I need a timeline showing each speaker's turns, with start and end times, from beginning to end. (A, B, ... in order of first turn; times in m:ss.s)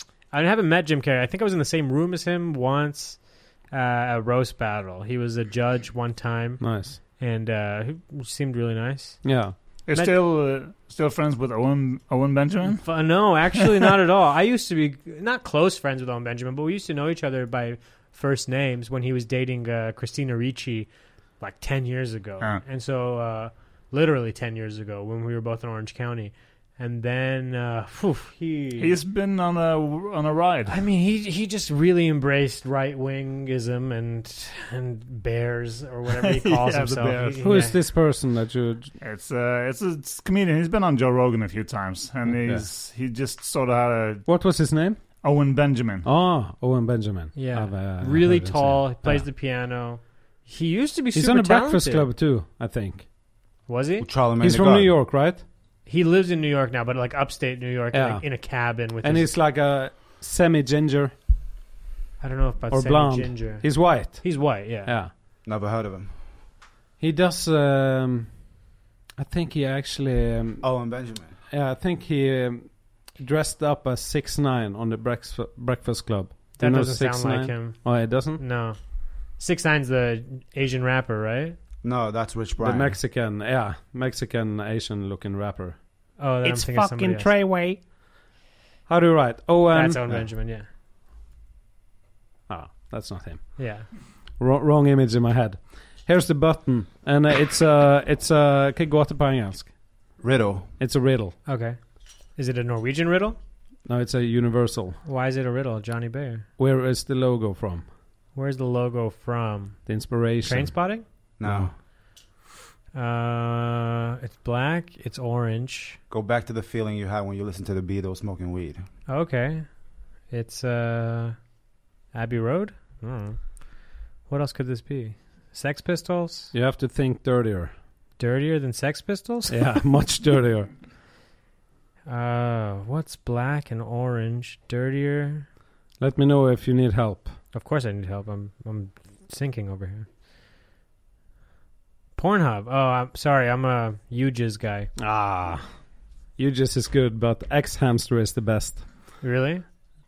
0:00.3-0:10.2 A
0:06.6-0:07.0 B
0:09.2-0:09.6 B
0:09.8-0:13.4 C
0:12.8-0:29.0 A
0:28.8-0:30.8 C
0:30.7-0:37.8 A
0:36.2-0:37.4 C
0:37.4-0:38.9 B
0:39.0-0:44.3 C
0:42.3-0:42.7 B
0:44.3-0:45.1 B
0:45.2-0:46.1 C
0:46.0-0:49.3 B
0:47.4-0:52.1 A
0:51.1-0:53.1 B
0:53.7-0:54.1 A
0:54.0-0:54.9 D
0:54.4-0:55.4 B
0:55.8-0:59.3 A
0:57.9-1:01.2 B
1:02.2-1:05.0 A
1:02.7-1:05.1 B
1:05.4-1:06.2 D
1:07.0-1:08.5 B
1:09.2-1:18.4 B
1:10.6-1:11.3 D
1:16.6-1:21.6 A
1:21.8-1:23.0 D
1:22.6-1:27.8 B
1:26.2-1:27.3 A
1:28.9-1:30.0 B
1:29.7-1:30.7 A
1:32.5-1:33.8 B
1:33.6-1:33.9 A
1:34.3-1:39.8 B
1:40.2-1:40.7 D
1:40.8-1:41.4 B
1:41.5-1:41.8 A
1:42.4-1:43.4 A
1:43.9-1:45.0 B
1:45.0-1:46.5 A
1:46.6-1:47.9 B
1:48.3-1:51.1 A
1:49.9-1:50.8 B
1:51.4-1:51.8 D
1:51.4-1:51.7 B
1:52.9-1:56.0 A
1:56.1-1:58.9 D
1:59.1-2:01.5 A
2:02.1-2:06.5 A
2:06.5-2:07.7 B
2:08.2-2:09.8 A
2:09.5-2:10.7 B
2:12.1-2:15.5 A
2:16.0-2:17.4 B
2:17.5-2:20.1 A
2:22.2-2:24.9 A
2:25.0-2:29.2 B
2:29.2-2:29.7 A